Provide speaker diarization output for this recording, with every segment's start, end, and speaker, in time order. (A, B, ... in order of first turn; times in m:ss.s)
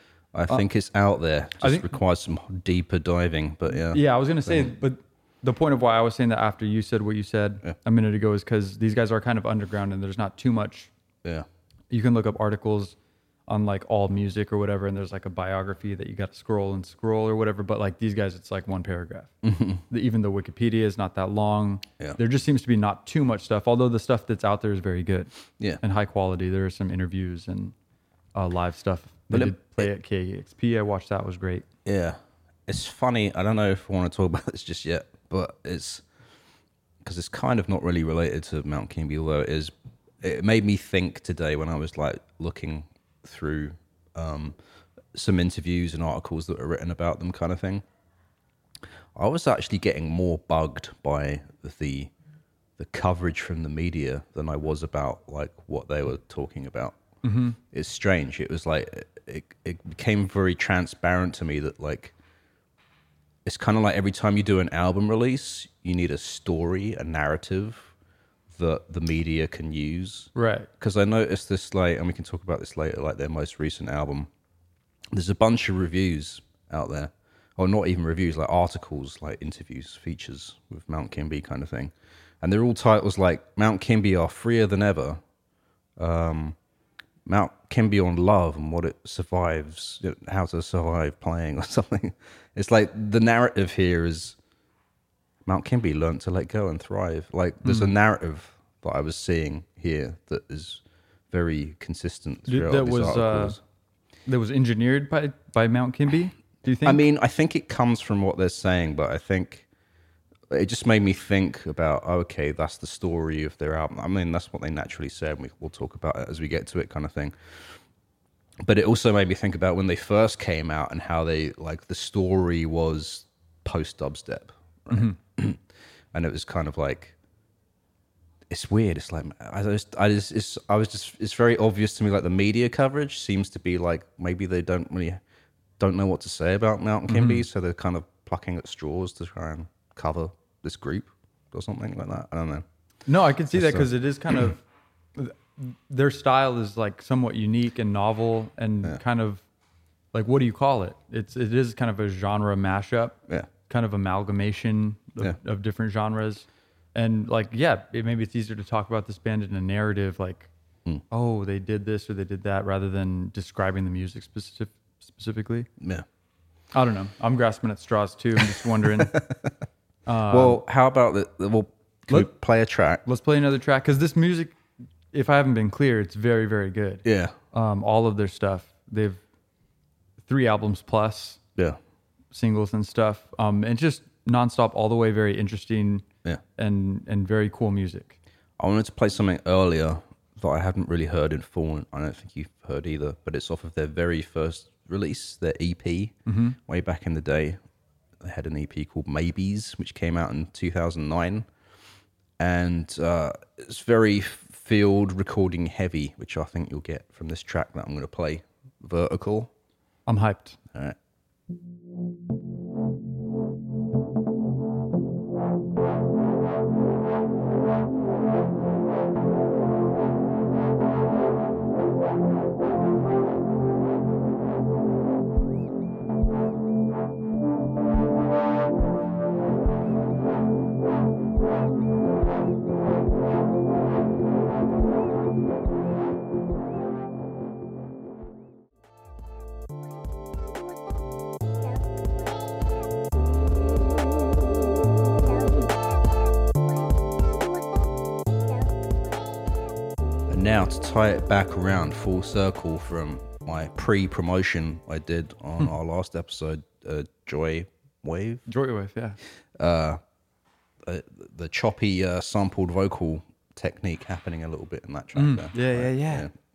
0:00.3-0:04.7 A
0:01.6-0:01.9 B
0:03.8-0:10.9 B
0:11.9-0:13.0 B
0:13.5-0:19.3 B
0:19.4-0:19.8 A
0:19.9-0:27.7 B
0:28.3-0:31.6 B
0:29.3-0:29.8 A
0:31.8-0:36.0 A
0:37.0-0:44.6 A
0:45.1-0:47.8 A
0:49.2-0:52.1 A
0:52.8-0:57.0 A
0:57.2-0:57.6 B
0:57.7-1:02.1 A
1:03.4-1:07.9 A
1:08.5-1:14.3 A
1:10.3-1:10.7 B
1:15.1-1:25.2 A
1:26.0-1:26.6 A
1:27.2-1:34.4 A
1:35.4-1:43.6 A
1:37.6-1:37.9 B
1:42.5-1:43.6 B
1:44.3-1:47.0 B
1:46.8-1:49.6 A
1:50.5-1:57.8 A
1:58.6-2:07.1 A
2:04.9-2:05.2 B
2:08.5-2:15.2 A
2:15.8-2:22.6 A
2:17.1-2:17.4 B
2:23.1-2:24.6 B
2:23.5-2:23.9 A
2:25.2-2:29.4 B
2:30.1-2:40.5 B
2:41.1-2:45.7 B
2:45.8-2:46.0 A
2:46.7-2:49.2 B
2:48.5-2:49.5 A
2:50.0-2:50.6 B
2:50.3-2:53.0 A
2:53.0-2:54.6 B
2:55.1-2:59.2 B
2:57.0-2:57.3 A
3:00.2-3:01.4 B
3:02.3-3:06.0 B
3:06.6-3:08.2 B
3:08.6-3:16.1 A
3:16.2-3:16.6 B
3:16.6-3:17.6 A
3:18.2-3:21.5 A
3:22.4-3:29.5 A
3:30.0-3:30.6 B
3:30.7-3:31.0 A
4:10.3-4:18.4 A
4:18.5-4:19.2 B
4:19.5-4:20.0 A
4:20.8-4:26.3 A
4:25.1-4:26.3 B